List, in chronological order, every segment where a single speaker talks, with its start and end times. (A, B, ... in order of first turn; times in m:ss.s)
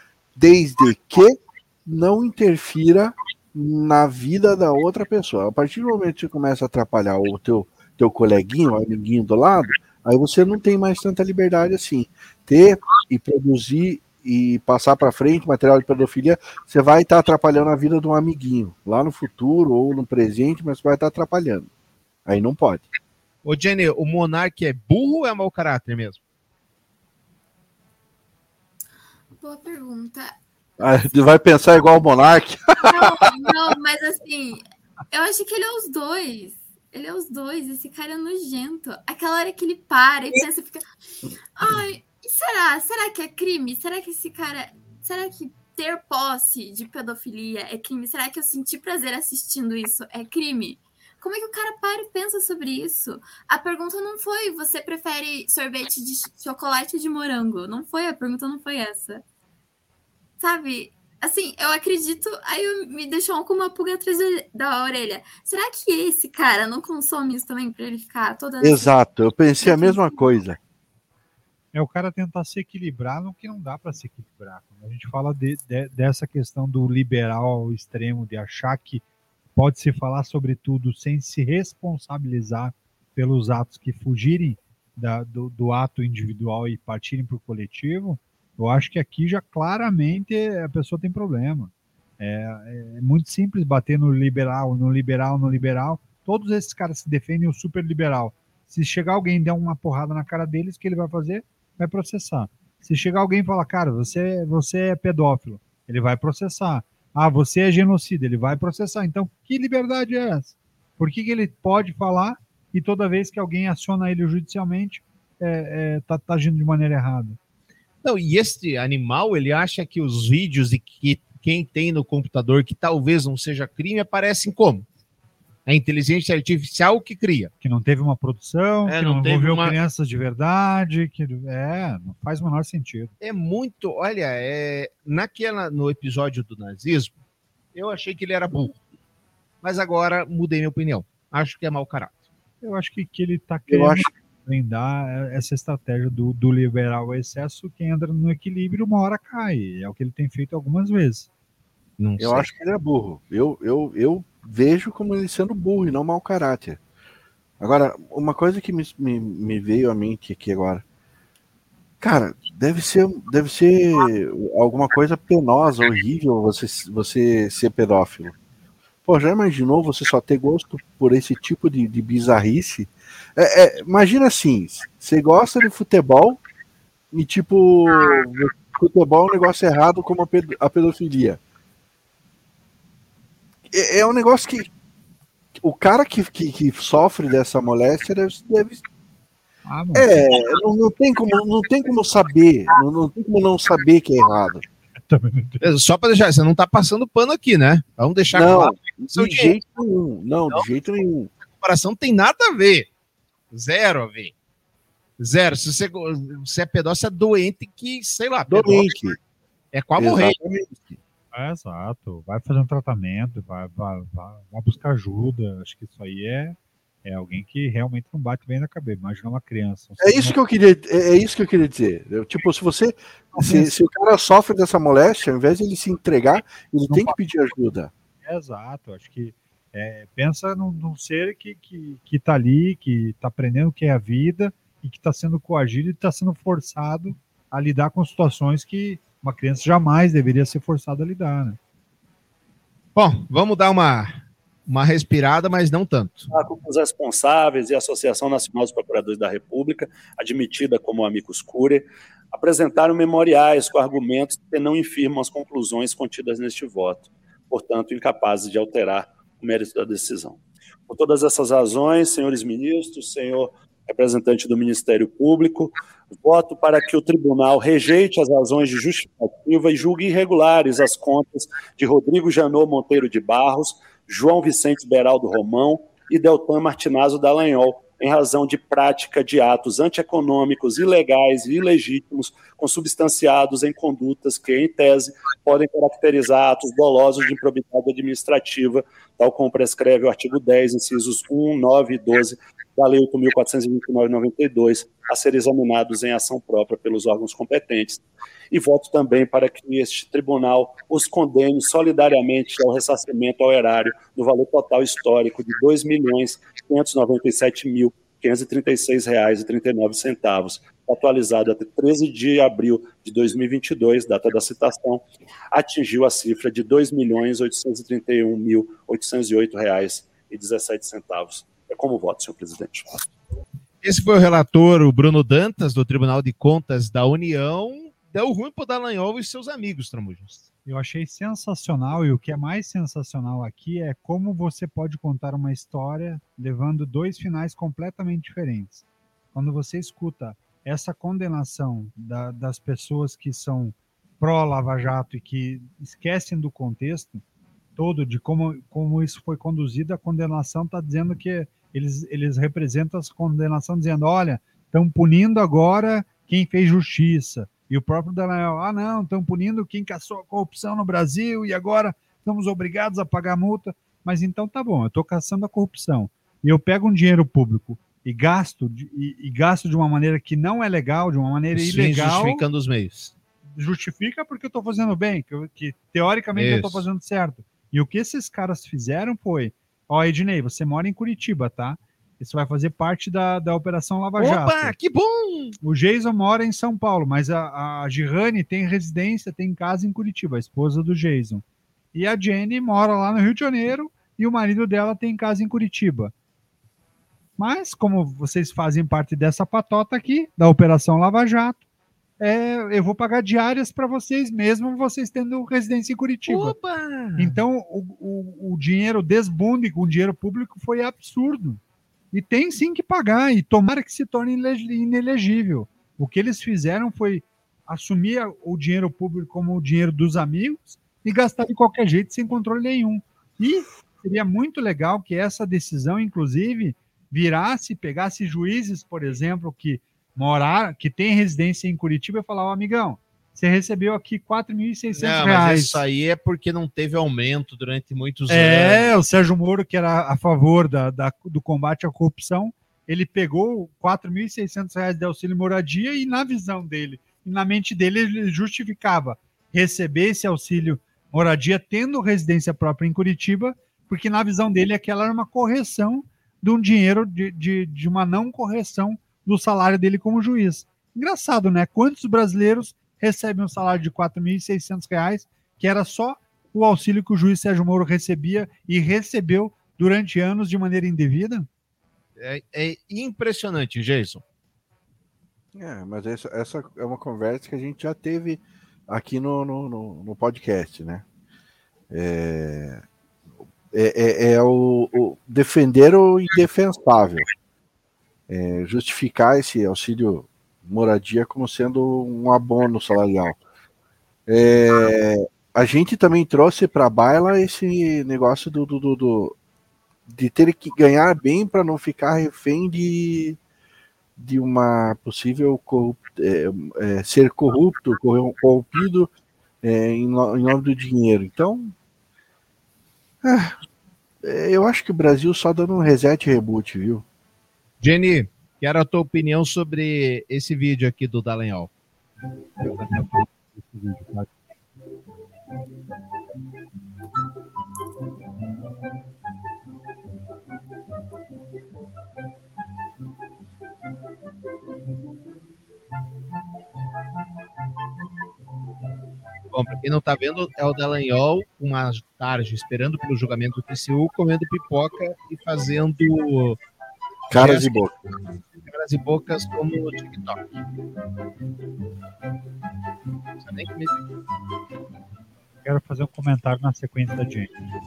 0:00.4-0:21.7 A
0:22.3-0:22.9 A
0:23.4-0:26.2 B
0:29.4-0:30.4 C
0:30.8-0:33.1 A
0:32.8-0:40.8 C
0:41.6-0:59.2 C
1:00.4-1:08.9 C
1:08.6-1:10.6 A
1:09.6-1:10.3 C
1:11.7-1:19.0 D
1:19.6-1:57.4 D
1:58.0-2:04.9 B
2:05.6-2:07.5 B
2:07.6-2:13.1 D
2:08.9-2:09.8 B
2:13.2-2:17.1 B
2:17.7-2:18.8 B
2:19.6-2:22.2 B
2:22.6-2:31.3 D
2:23.7-2:24.1 A
2:32.0-2:32.5 B
2:32.2-2:36.8 A
2:37.6-2:40.8 A
2:42.0-2:48.3 A
2:49.0-2:56.4 A
2:57.1-3:01.4 A
3:03.7-3:04.7 A
3:05.6-3:08.8 A
3:09.7-3:10.1 D
3:10.0-3:14.6 A
3:15.1-3:15.6 D
3:15.6-3:19.6 B
3:18.3-3:21.3 A
3:21.5-3:22.9 B
3:23.5-3:24.3 B
3:25.2-3:29.0 B
3:28.5-3:29.2 A
3:29.7-3:30.4 B
3:30.0-3:31.0 A
3:31.3-3:40.4 D
3:40.0-3:47.9 A
3:43.3-3:43.7 D
3:46.9-3:47.1 D
3:48.2-4:01.6 D
4:03.0-4:04.1 B
4:04.7-4:06.3 B
4:06.3-5:23.0 E
5:23.8-5:30.5 B
5:30.6-5:47.2 D
5:47.8-6:12.4 D
6:11.5-6:13.1 B
6:13.6-6:24.7 D
6:16.3-6:16.9 B
6:24.2-6:25.6 B
6:25.6-6:31.4 D
6:31.9-6:36.1 D
6:37.4-6:41.6 D
6:42.2-6:46.6 D
6:46.3-6:47.4 B
6:47.2-6:51.6 D
6:52.1-7:15.8 D
7:14.9-7:18.9 B
7:18.3-7:51.5 D
7:52.2-7:54.2 B
7:55.5-8:01.0 A
8:01.9-8:02.8 A
8:03.7-8:07.3 A
8:08.3-8:13.4 A
8:14.3-8:19.4 A
8:20.1-8:23.4 A
8:24.2-8:29.1 A
8:29.6-8:31.7 A
8:33.2-8:33.6 A
8:34.2-8:37.0 A
8:37.8-8:41.7 B
8:42.6-8:44.3 D
8:59.5-9:06.6 B
9:07.3-9:07.9 A
9:07.3-9:07.8 B
9:08.6-9:10.4 B
9:13.4-9:14.0 B
9:15.6-9:17.5 D